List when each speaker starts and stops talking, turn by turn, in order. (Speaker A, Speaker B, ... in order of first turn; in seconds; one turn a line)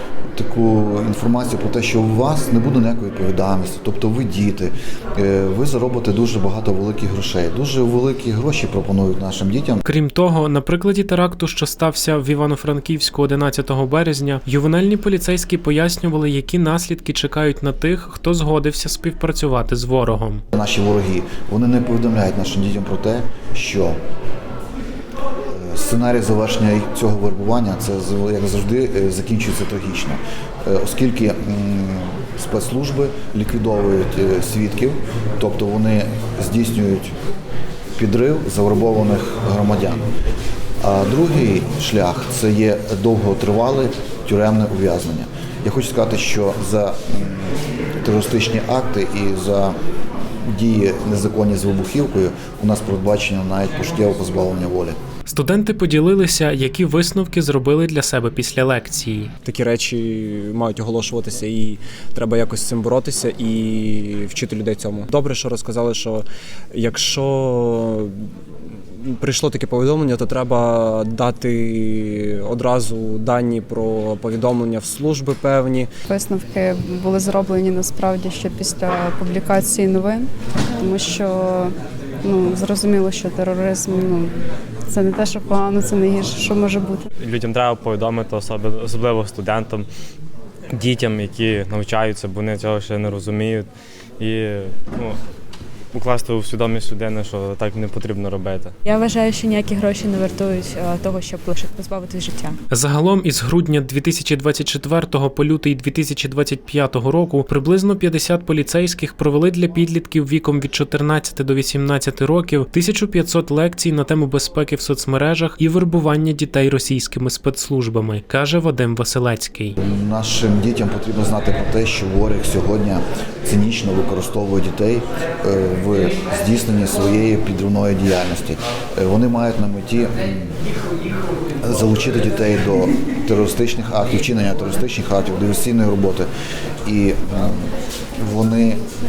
Speaker A: 0.3-9.8
Speaker B: 9.9-20.4
Speaker A: 20.5-24.0
Speaker A: 25.5-37.1
Speaker A: 38.0-40.0
Speaker A: 40.8-49.8
Speaker A: 50.4-55.0
Speaker B: 55.3-59.3
Speaker C: 59.4-68.2
Speaker C: 69.0-75.9
Speaker D: 76.1-80.3
Speaker D: 80.8-84.3
Speaker D: 84.9-87.1
Speaker E: 87.2-89.9
Speaker E: 90.7-93.7
Speaker E: 94.2-95.2
Speaker E: 95.9-98.8
Speaker F: 98.9-102.6
Speaker B: 102.7-119.8
Speaker A: 119.8-130.6
Speaker A: 131.6-136.3
Speaker A: 136.8-138.8